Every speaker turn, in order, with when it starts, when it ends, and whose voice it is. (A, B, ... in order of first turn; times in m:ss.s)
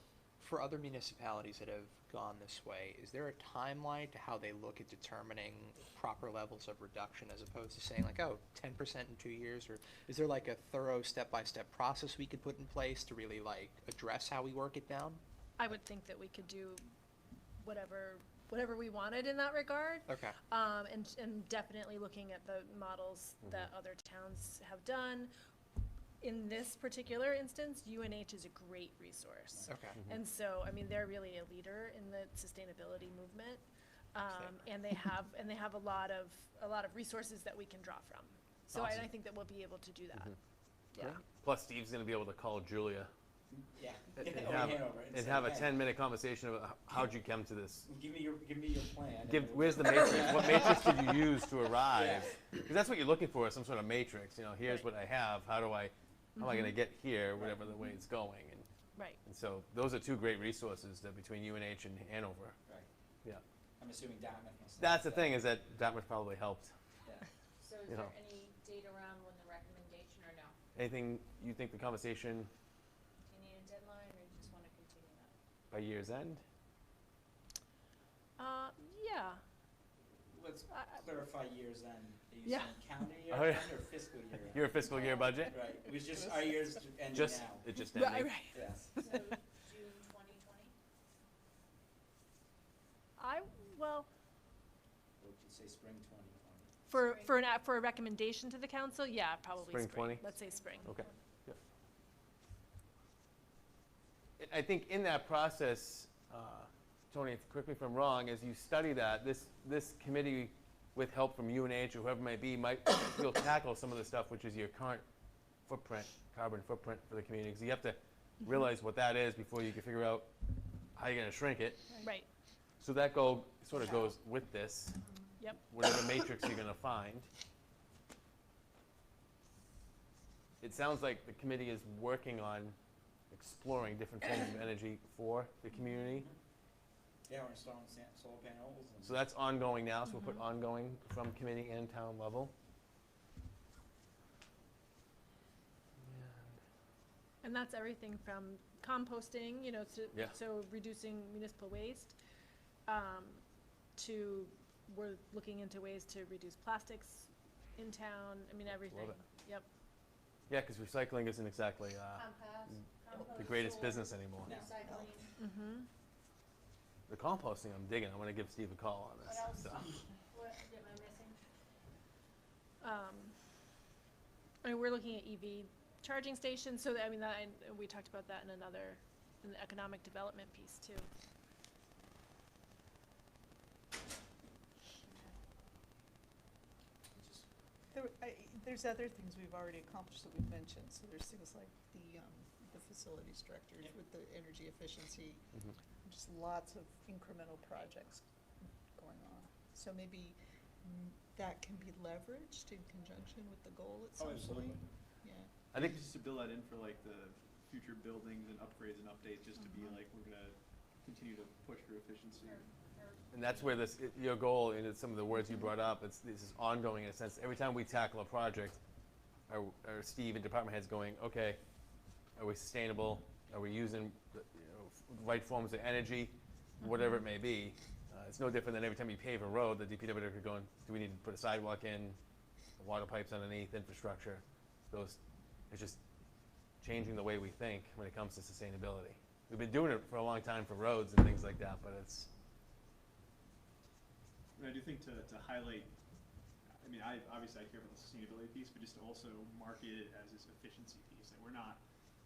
0:00.4-0:15.2 A
0:15.6-0:16.8 B
0:17.6-0:25.3 B
0:20.1-0:20.4 A
0:26.2-0:40.4 B
0:29.5-0:29.8 C
0:29.7-0:30.0 A
0:34.3-0:34.6 A
0:38.7-0:39.0 A
0:41.0-0:43.1 D
0:43.5-0:45.8 C
0:44.2-0:47.9 D
0:47.9-0:51.3 C
0:49.2-0:58.7 D
0:51.8-0:52.5 C
0:56.4-0:56.8 B
0:57.4-0:57.9 C
0:59.2-1:02.6 D
1:03.8-1:05.4 C
1:04.8-1:06.7 D
1:07.6-1:10.6 E
1:07.9-1:08.1 D
1:10.8-1:12.5 D
1:13.3-1:15.4 E
1:15.7-1:16.4 D
1:18.4-1:19.4 B
1:20.2-1:27.7 C
1:20.7-1:21.0 B
1:22.4-1:22.8 B
1:23.3-1:23.8 D
1:24.4-1:25.6 D
1:24.7-1:25.5 E
1:27.0-1:28.5 D
1:27.8-1:29.4 B
1:28.5-1:28.9 C
1:29.0-1:30.8 E
1:33.2-1:34.1 B
1:35.2-1:36.7 C
1:36.9-1:41.0 B
1:36.9-1:37.5 E
1:39.6-1:40.3 D
1:40.2-1:41.2 E
1:40.8-1:41.6 D
1:44.4-1:55.0 D
1:55.7-2:00.3 D
2:01.0-2:01.9 D
2:02.0-2:02.3 B
2:02.8-2:05.0 D
2:05.4-2:06.3 B
2:05.6-2:07.3 D
2:10.6-2:12.8 D
2:13.3-2:16.3 D
2:16.1-2:16.4 C
2:17.3-2:19.2 C
2:19.0-2:22.5 D
2:20.1-2:20.4 B
2:26.0-2:26.6 D
2:27.4-2:32.2 B
2:32.9-2:33.4 B
2:34.0-2:39.7 B
2:38.7-2:39.2 D
2:40.5-2:44.6 D
2:42.2-2:45.3 E
2:44.4-2:45.1 C
2:45.4-2:45.9 B
2:47.1-2:49.9 D
2:49.2-2:51.4 E
2:52.8-2:53.3 B
2:54.6-3:01.1 B
3:07.1-3:07.5 C
3:07.9-3:15.4 F
3:16.0-3:18.2 F
3:19.0-3:25.5 F
3:24.2-3:24.8 C
3:25.7-3:26.0 D
3:25.8-3:32.7 G
3:29.7-3:30.0 F
3:32.4-3:33.8 E
3:33.3-3:38.8 D
3:39.5-3:41.6 D
3:42.4-3:52.2 D
3:46.9-3:47.2 B
3:52.8-3:55.2 D
3:55.7-3:56.0 D
3:56.8-4:02.3 D
4:04.6-4:05.9 G
4:06.8-4:11.8 G